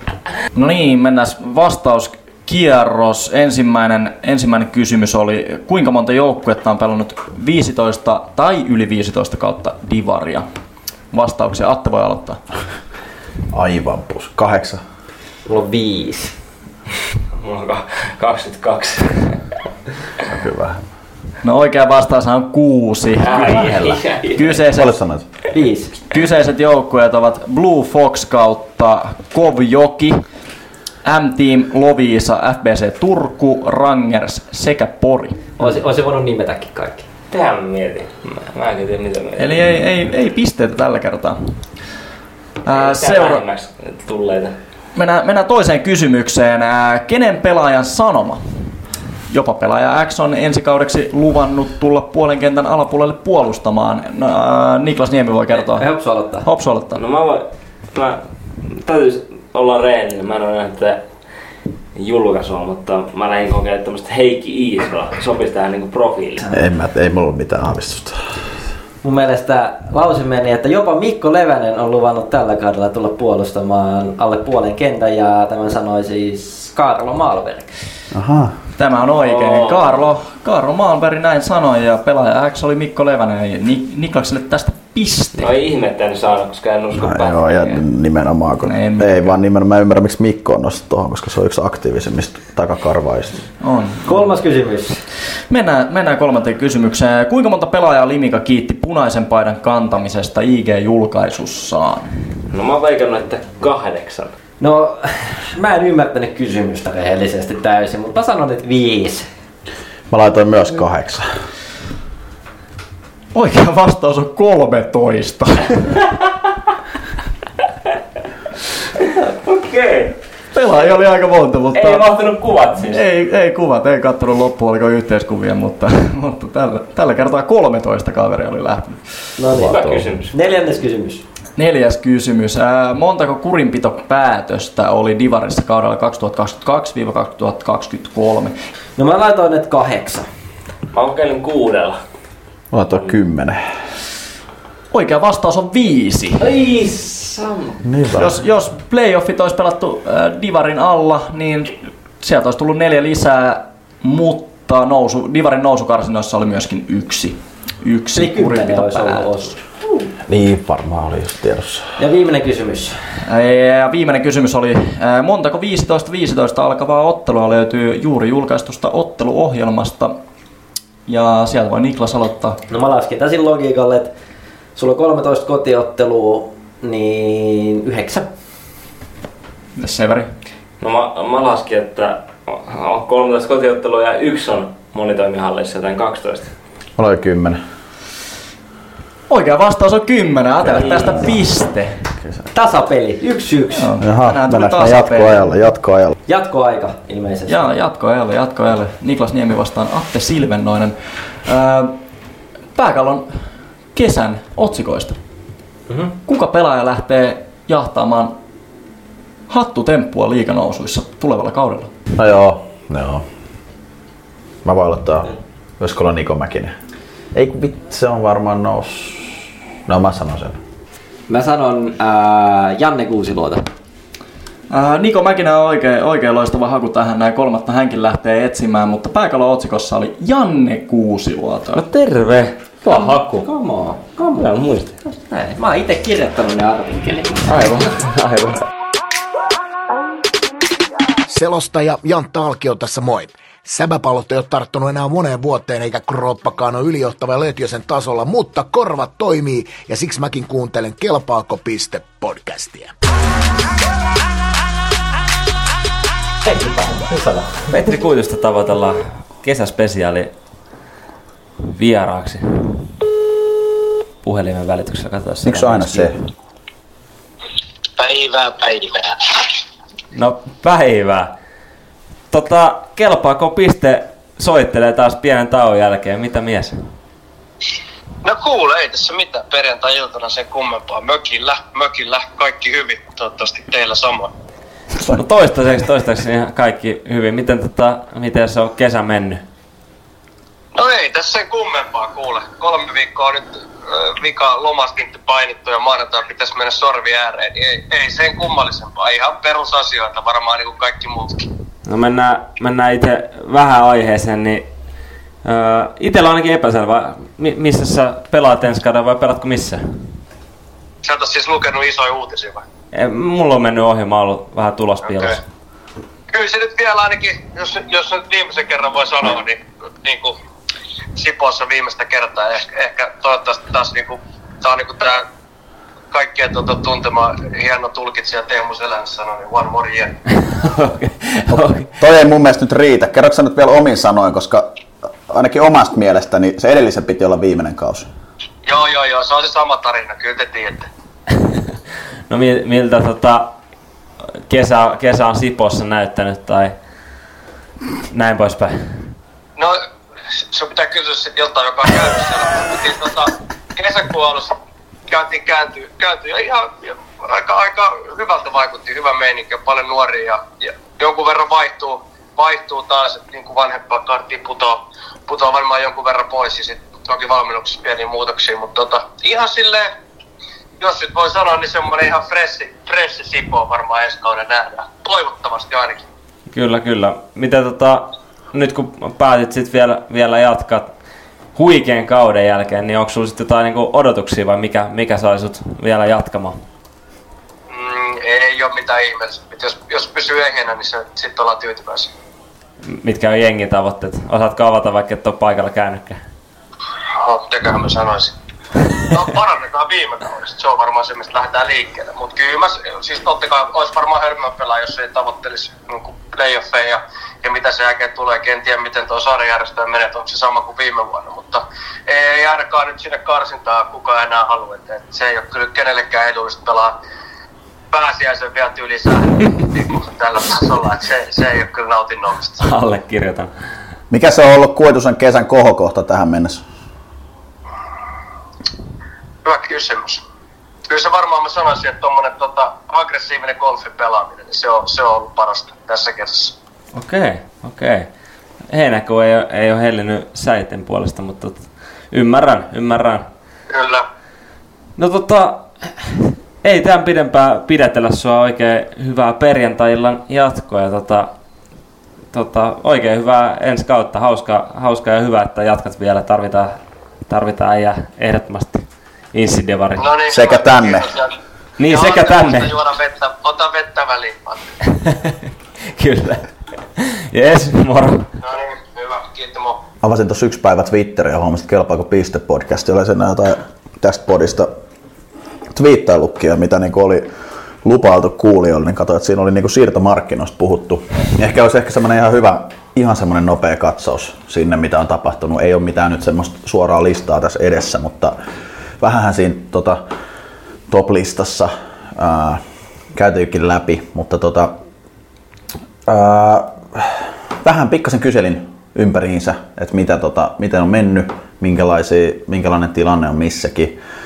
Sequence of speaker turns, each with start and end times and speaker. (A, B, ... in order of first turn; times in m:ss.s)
0:00.5-0:10.5 A
0:11.1-0:12.4 A
0:13.5-0:14.8 B
0:15.5-0:16.4 C
0:17.4-0:19.4 D
0:20.2-0:20.8 B
0:21.4-0:24.9 A
0:23.2-0:24.5 D
0:24.7-0:25.2 B
0:25.5-0:26.0 C
0:26.1-0:30.2 A
0:31.0-0:35.5 A
0:35.6-0:37.1 C
0:37.3-0:39.6 D
0:39.4-0:41.6 A
0:42.6-0:43.4 A
0:42.7-0:44.6 D
0:45.0-0:48.7 A
0:49.3-0:55.9 A
0:55.7-0:56.5 C
0:56.4-0:57.0 A
0:57.0-1:01.0 D
1:02.0-1:06.5 D
1:06.5-1:08.6 B
1:09.0-1:17.8 C
1:18.1-1:18.6 B
1:18.8-1:25.5 A
1:19.2-1:20.0 D
1:25.4-1:27.8 D
1:27.0-1:33.4 B
1:28.6-1:29.2 A
1:33.6-1:34.1 A
1:34.0-1:35.0 C
1:35.5-1:42.1 A
1:42.5-1:44.4 D
1:44.6-1:49.3 C
1:50.1-1:51.4 B
1:53.3-1:56.0 A
1:59.3-2:00.2 D
2:00.5-2:02.1 A
2:01.8-2:03.0 D
2:02.7-2:10.0 A
2:09.4-2:11.2 C
2:09.5-2:10.3 D
2:11.6-2:18.6 A
2:19.0-2:20.3 C
2:20.9-2:22.0 D
2:22.7-2:23.6 B
2:24.9-2:26.4 A
2:26.4-2:27.8 D
2:27.8-2:28.4 B
2:28.2-2:39.5 A
2:38.2-2:40.0 C
2:40.2-2:42.0 B
2:42.0-2:43.0 C
2:43.2-2:50.2 A
2:51.1-2:52.6 A
2:52.7-2:54.1 C
2:54.8-2:58.3 C
2:59.8-3:00.3 A
3:00.8-3:06.5 D
3:07.0-3:07.6 B
3:09.3-3:12.0 A
3:12.5-3:13.9 C
3:13.7-3:15.4 A
3:14.0-3:16.2 B
3:16.3-3:17.6 C
3:17.5-3:22.0 A
3:22.7-3:25.2 A
3:25.9-3:26.1 C
3:26.2-3:28.4 A
3:29.5-3:31.9 A
3:32.2-3:33.2 B
3:34.6-3:36.8 B
3:37.3-3:40.6 B
3:41.3-3:43.7 C
3:44.7-3:51.8 A
3:51.7-3:53.5 D
3:52.8-3:54.4 C
3:54.2-3:55.0 D
3:55.3-3:57.5 C
3:57.5-3:57.9 A
3:57.7-3:58.6 D
4:01.3-4:12.9 E
4:16.4-4:17.7 C
4:17.7-4:20.3 D
4:21.6-4:22.8 D
4:24.2-4:26.1 D
4:25.4-4:26.2 B
4:28.0-4:29.5 F
4:30.1-4:31.3 D
4:32.3-4:36.9 D
4:38.2-4:44.3 F
4:45.1-4:49.4 D
4:50.8-5:01.5 F
5:01.9-5:04.7 D
5:05.4-5:10.2 D
5:11.0-5:12.6 F
5:12.9-5:15.4 D
5:15.1-5:15.3 F
5:16.3-5:20.4 F
5:21.2-5:25.3 F
5:26.1-5:30.2 F
5:30.3-5:31.9 D
5:31.6-5:34.7 B
5:35.3-5:38.1 B
5:38.7-5:40.9 F
5:41.4-5:41.6 D
5:42.3-5:43.5 D
5:44.5-5:46.8 D
5:48.1-5:49.2 D
5:50.4-5:54.6 F
5:55.1-6:09.9 F
6:10.8-6:16.0 F
6:16.5-6:20.9 D
6:21.6-6:26.6 D
6:27.7-6:32.1 F
6:32.8-6:36.2 D
6:37.1-6:38.3 F
6:39.0-6:57.0 F
6:57.9-7:02.6 F
7:02.6-7:03.5 D
7:04.1-7:06.6 B
7:09.4-7:10.2 F
7:10.9-7:16.5 F
7:16.9-7:18.1 D
7:18.7-7:23.3 D
7:23.7-7:24.0 F
7:25.0-7:31.3 D
7:32.3-7:40.1 D
7:40.0-7:44.7 F
7:40.3-7:41.2 B
7:41.8-7:42.7 D
7:44.9-7:45.3 D
7:45.9-7:48.3 D
7:48.4-7:49.8 F
7:50.0-7:54.7 B
7:55.7-7:57.3 B
7:57.8-8:08.4 B
8:09.0-8:10.0 B
8:10.9-8:14.8 B
8:16.1-8:24.0 B